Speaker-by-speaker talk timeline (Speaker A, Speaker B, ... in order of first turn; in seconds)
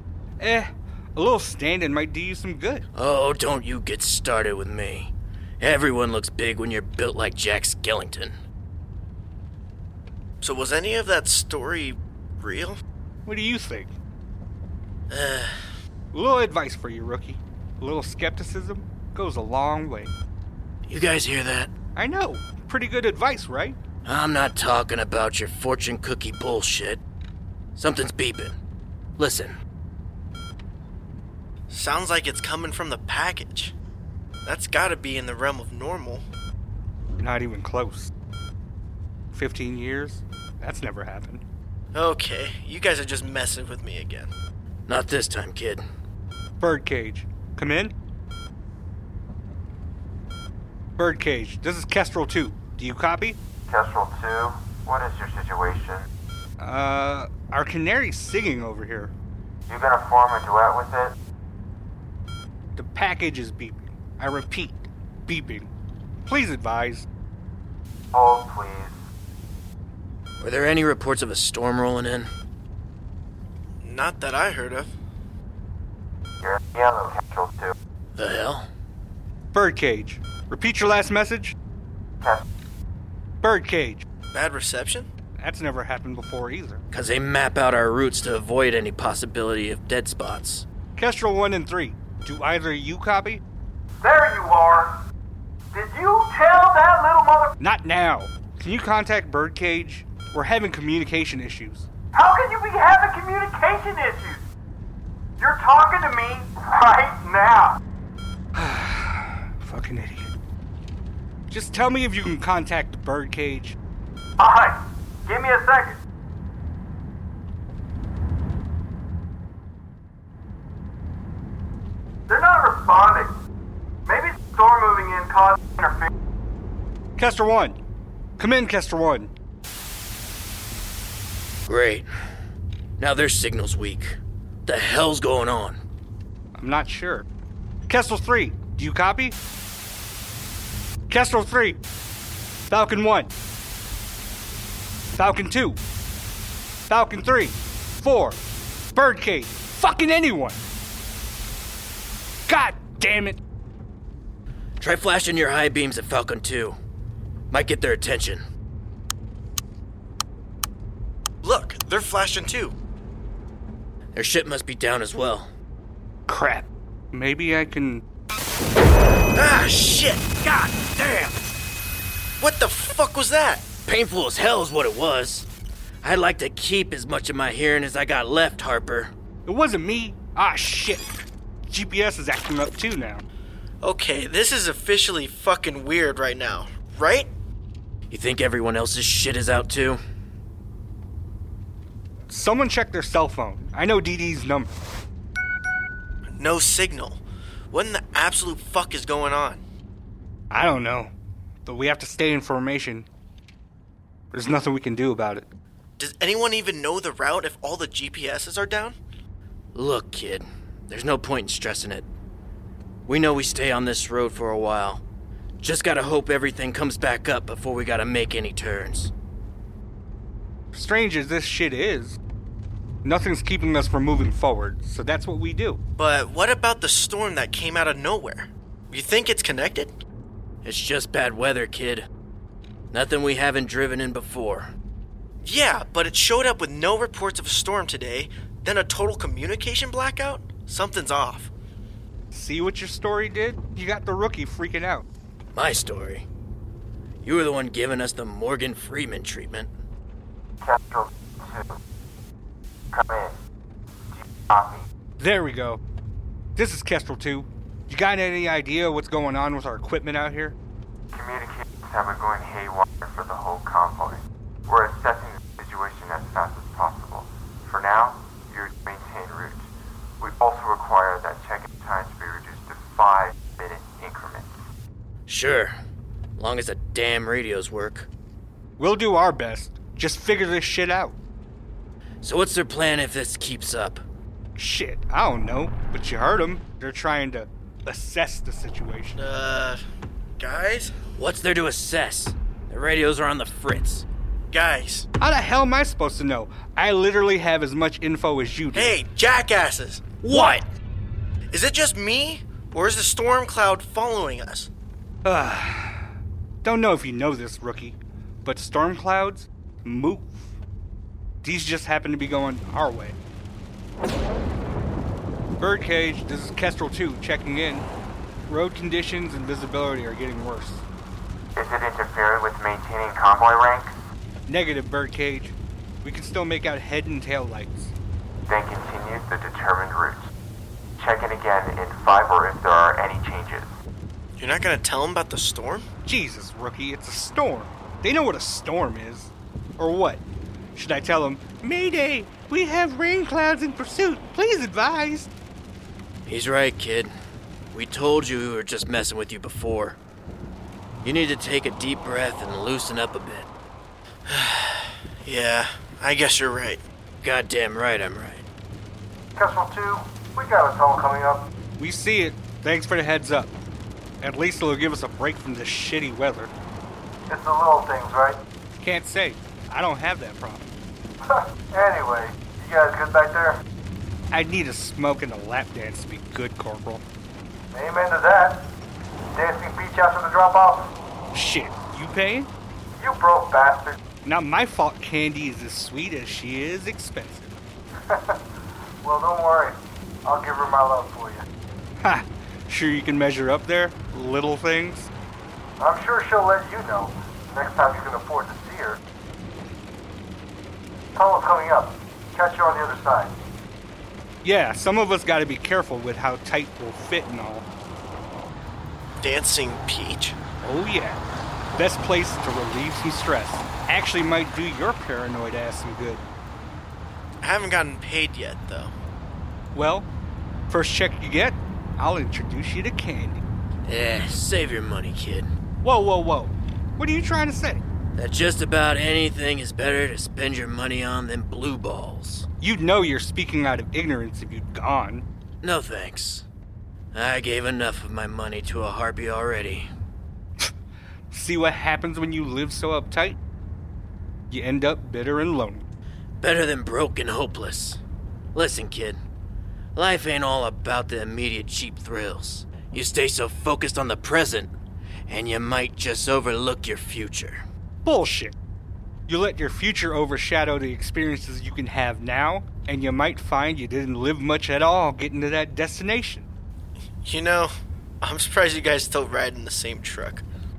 Speaker A: 0.4-2.8, 13.2-13.9, 16.1-20.1, 21.9-23.8, 37.2-38.1, 39.3-41.4, 46.6-47.9, 51.0-53.4, 56.6-59.1, 62.8-65.7, 66.2-67.0, 79.5-81.5, 83.4-84.0, 85.4-86.8, 91.0-93.4, 97.6-101.9, 108.5-110.3, 111.5-113.8, 127.2-127.8, 128.4-129.3, 136.5-137.2, 137.9-139.4, 141.1-141.8, 142.7-143.3, 145.1-145.8, 146.9-148.4, 148.9-150.6, 152.5-153.4, 166.3-168.0, 179.4-183.2, 192.3-194.7, 200.5-201.1, 201.7-203.1, 204.3-205.5, 220.7-222.2, 223.0-225.8, 242.3-245.0, 255.2-255.8, 256.6-260.6, 278.8-281.1, 284.6-289.2, 295.2-298.9, 300.3-300.6, 305.2-306.1, 306.6-310.5, 311.4-313.1, 315.6-317.9, 318.5-320.8, 324.5-327.9, 336.0-340.2, 340.7-345.3, 361.8-363.5, 364.2-366.5, 368.8-370.6, 374.3-377.0, 381.3-382.5, 384.2-387.6, 392.0-395.1, 404.4-407.6, 410.6-411.2, 411.7-416.2, 419.7-420.1, 420.7-423.4, 425.8-427.8, 432.6-435.2, 441.3-443.4, 444.5-445.9, 458.0-458.6, 459.3-466.5
Speaker B: 2.9-8.3, 20.9-21.7, 24.0-27.0, 27.8-28.6, 29.2-29.5, 44.9-45.8, 70.4-72.3, 78.2-78.7, 86.9-90.7, 131.7-132.1, 133.0-135.8, 154.8-156.8, 157.5-158.4, 164.1-165.5, 170.4-171.4, 173.9-175.5, 176.0-179.1, 188.1-190.0, 209.7-212.1, 213.1-215.0, 215.6-219.1, 230.6-232.1, 232.9-234.7, 245.5-246.2, 247.2-249.7, 275.3-275.8, 276.4-278.1, 282.2-284.0, 291.1-294.0, 300.2-300.6, 346.2-347.1, 347.7-350.0, 351.0-353.5, 357.2-358.4, 423.9-425.5, 428.1-432.4, 435.6-436.4, 437.1-439.9, 446.4-448.0, 448.5-449.2, 449.9-454.7, 455.3-457.6
Speaker C: 10.4-12.8, 15.1-15.5, 31.7-33.7, 34.4-36.2, 41.9-44.3, 73.8-74.9, 84.3-85.1, 161.4-162.8, 169.3-170.3, 172.4-173.6, 183.8-187.3, 196.3-199.6, 206.0-209.0, 226.0-229.9, 235.4-241.5, 289.1-289.8, 290.4-290.9, 294.5-295.1, 298.7-300.1, 301.5-304.7, 334.4-335.9, 354.3-356.8, 409.2-410.4, 417.4-418.9, 467.2-470.4
Speaker D: 53.7-56.1, 59.7-61.1, 68.1-69.0, 76.4-77.7, 250.6-251.8, 252.9-253.4, 254.1-254.8, 261.1-269.6, 270.2-274.5, 321.5-324.0, 328.5-330.3, 331.0-333.7
Speaker E: 94.0-95.0, 95.7-97.5, 102.1-104.4, 105.4-107.8, 114.4-116.0, 122.3-123.3, 124.0-126.1, 359.4-361.4, 367.3-368.4, 371.3-373.6, 377.7-378.6, 379.3-380.9, 383.0-384.0, 389.0-391.4, 395.8-399.0, 401.1-403.3